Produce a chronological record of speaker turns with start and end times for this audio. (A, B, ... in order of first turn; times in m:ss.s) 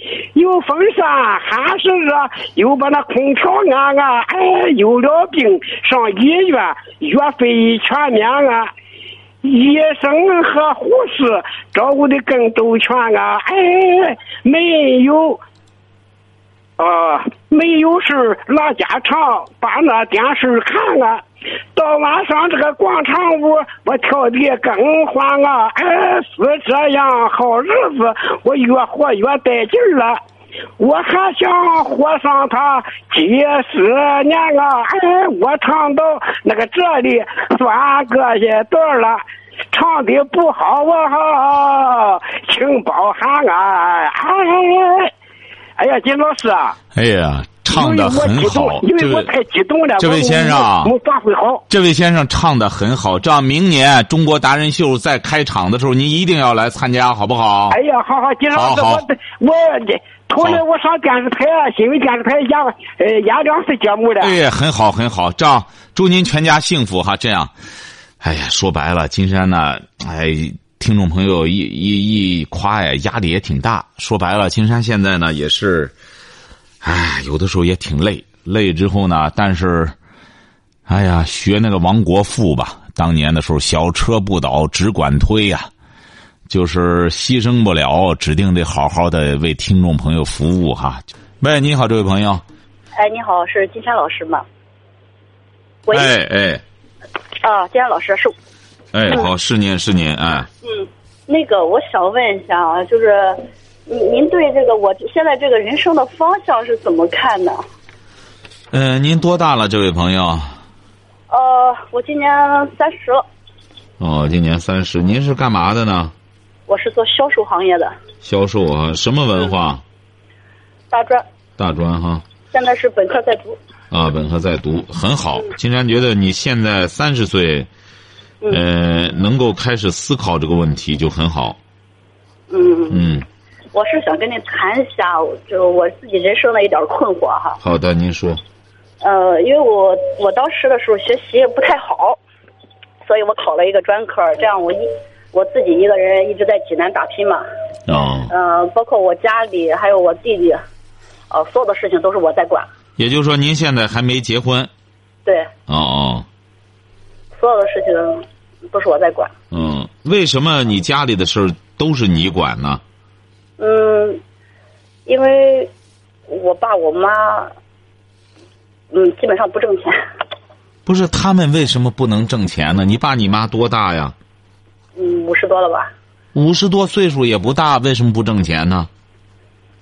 0:00.4-0:08.7 A
0:09.4-0:15.4 A
0:16.8-0:21.2 A
0:21.8-0:30.2 A
0:30.8-0:39.2 A
0:39.7-0:45.1 A
0:45.8-0:46.8 A
0:46.9-0:49.3 B
0:47.7-0:51.6 A
0:50.0-0:50.9 B
0:51.7-0:57.8 B
0:57.7-1:04.4 A
0:58.6-0:59.0 B
1:04.2-1:07.5 B
1:08.2-1:15.9 B
1:16.8-1:20.0 B
1:20.9-1:25.7 B
1:26.5-1:32.4 B
1:33.0-1:34.4 C
1:35.9-1:36.1 C
1:35.9-1:36.6 B
1:37.4-1:38.4 C
1:38.9-1:40.5 B
1:40.6-1:47.6 C
1:48.7-1:50.5 B
1:51.3-1:53.2 C
1:54.0-1:56.1 B
1:56.7-1:57.9 C
1:58.2-1:59.8 B
2:00.9-2:01.2 C
2:01.6-2:02.2 B
2:02.5-2:03.6 C
2:03.9-2:07.7 B
2:08.5-2:11.6 B
2:12.5-2:13.1 C
2:12.9-2:13.2 B
2:13.7-2:17.6 C
2:17.6-2:18.4 B
2:19.0-2:22.2 C
2:23.0-2:27.4 C
2:27.9-2:28.3 B
2:28.3-2:30.6 C
2:31.3-2:32.7 C
2:33.0-2:34.7 B
2:35.2-2:35.5 C
2:35.7-2:36.3 B
2:37.4-2:39.3 C
2:39.5-2:42.8 B
2:43.6-2:44.2 C
2:45.1-2:45.7 C
2:46.3-2:47.5 C
2:48.9-2:50.0 C
2:50.9-2:54.2 B
2:55.0-2:55.9 C
2:56.3-2:58.9 B